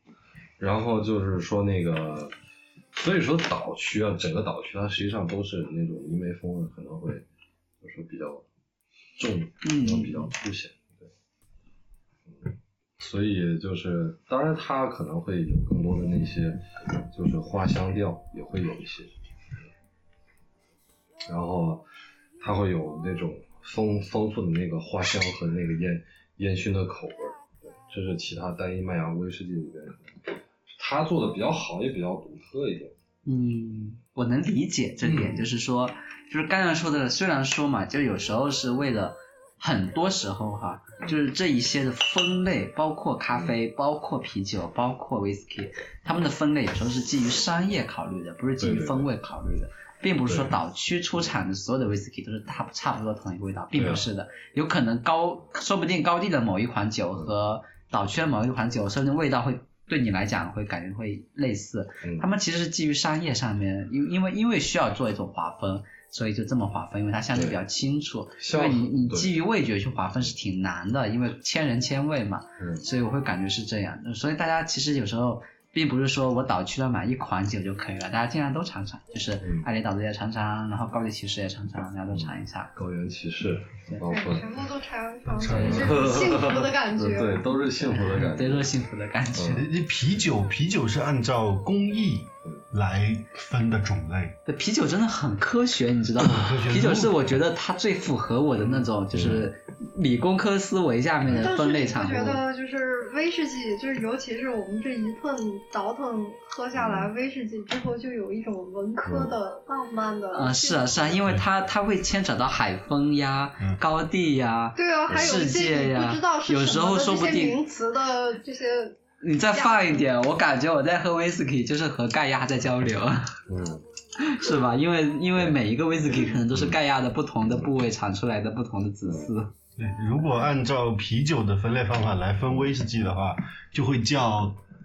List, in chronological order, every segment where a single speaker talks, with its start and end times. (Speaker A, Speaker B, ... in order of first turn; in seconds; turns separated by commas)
Speaker A: 0.6-2.3, Speaker A: 2.9-7.2, Speaker A: 7.8-8.4, Speaker A: 9.2-11.1, Speaker B: 9.6-10.3, Speaker A: 12.3-19.1, Speaker A: 21.3-21.9, Speaker A: 22.4-32.9, Speaker B: 33.2-82.7, Speaker A: 35.0-35.5, Speaker A: 48.6-49.1, Speaker A: 50.3-50.6, Speaker A: 53.8-54.0, Speaker A: 67.3-67.6, Speaker A: 68.4-69.4, Speaker A: 72.6-72.8, Speaker A: 79.4-79.7, Speaker A: 82.1-84.5, Speaker C: 84.0-87.5, Speaker D: 85.3-86.1, Speaker A: 85.4-88.8, Speaker B: 88.0-89.7, Speaker A: 89.3-89.7, Speaker D: 89.5-94.4, Speaker B: 94.5-102.4, Speaker D: 96.2-97.3, Speaker A: 99.1-99.5, Speaker C: 101.3-111.1, Speaker A: 106.7-107.1, Speaker A: 109.0-109.4, Speaker B: 110.3-117.6, Speaker C: 114.8-119.0, Speaker A: 115.1-115.4, Speaker B: 119.2-123.4, Speaker C: 119.5-119.9, Speaker A: 123.5-123.8, Speaker B: 124.2-129.5, Speaker A: 126.1-126.8, Speaker D: 129.8-134.6